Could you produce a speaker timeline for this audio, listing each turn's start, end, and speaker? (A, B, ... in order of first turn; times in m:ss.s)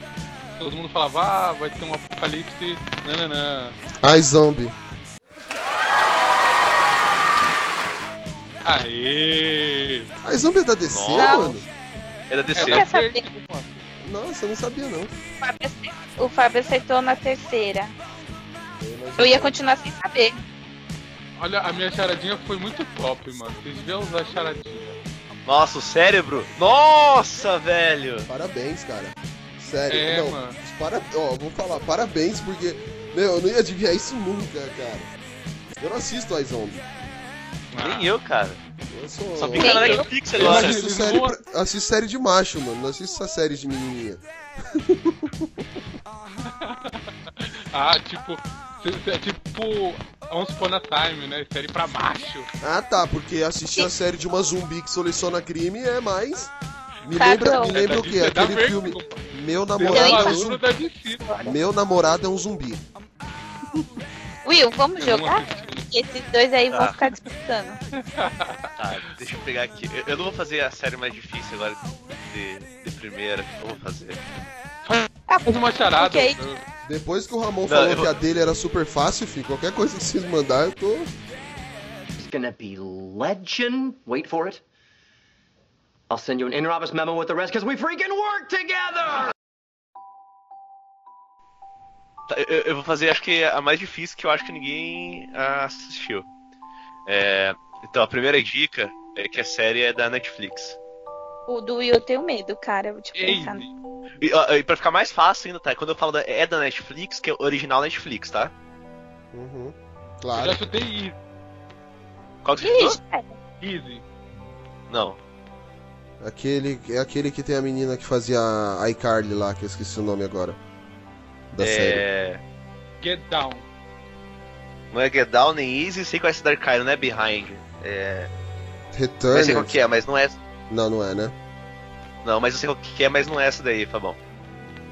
0:00.6-0:03.8 A
0:04.0-0:04.8 B
0:08.6-0:10.1 A
0:10.2-0:11.6 B
0:10.8-0:11.6 C
0:11.2-0:11.5 D
0:12.3-0:12.8 C
0:12.5-0:13.8 A
0:12.6-0:13.2 D
0:14.0-0:15.1 B
0:15.4-0:17.9 D
0:18.8-0:19.6 B
0:19.2-0:20.4 D
0:21.4-0:25.0 A
0:25.4-0:28.3 C
0:28.3-0:35.1 B
0:29.9-0:30.6 A
0:35.8-0:36.8 B
0:37.7-0:38.1 A
0:37.8-0:38.6 C
0:38.9-0:45.5 B
0:39.4-0:40.8 C
0:39.6-0:40.0 D
0:39.8-0:41.4 A
0:46.4-0:52.5 A
0:52.6-1:00.6 B
0:57.2-0:57.8 D
0:57.7-0:59.2 A
0:59.8-1:01.2 A
0:59.9-1:00.4 D
1:01.2-1:01.5 D
1:01.4-1:02.8 B
1:04.4-1:07.8 D
1:05.0-1:05.9 A
1:07.9-1:08.7 A
1:08.8-1:14.2 C
1:14.8-1:16.6 A
1:15.3-1:16.4 D
1:16.8-1:21.1 B
1:17.6-1:18.1 C
1:22.2-1:24.6 E
1:26.1-1:29.3 E
1:32.3-1:36.2 C
1:37.1-1:40.8 C
1:41.5-1:43.6 D
1:43.2-1:43.7 A
1:44.2-1:48.5 C
1:49.3-1:50.6 B
1:50.3-1:51.1 A
1:52.4-1:53.0 C
1:52.6-1:53.4 D
1:53.6-1:54.0 A
1:54.9-1:55.2 C
1:56.2-2:00.6 B
2:01.5-2:02.0 B
2:01.6-2:02.4 C
2:03.0-2:03.6 A
2:04.9-2:08.3 C
2:08.9-2:09.8 B
2:09.3-2:10.4 C
2:10.7-2:11.3 B
2:12.2-2:14.2 C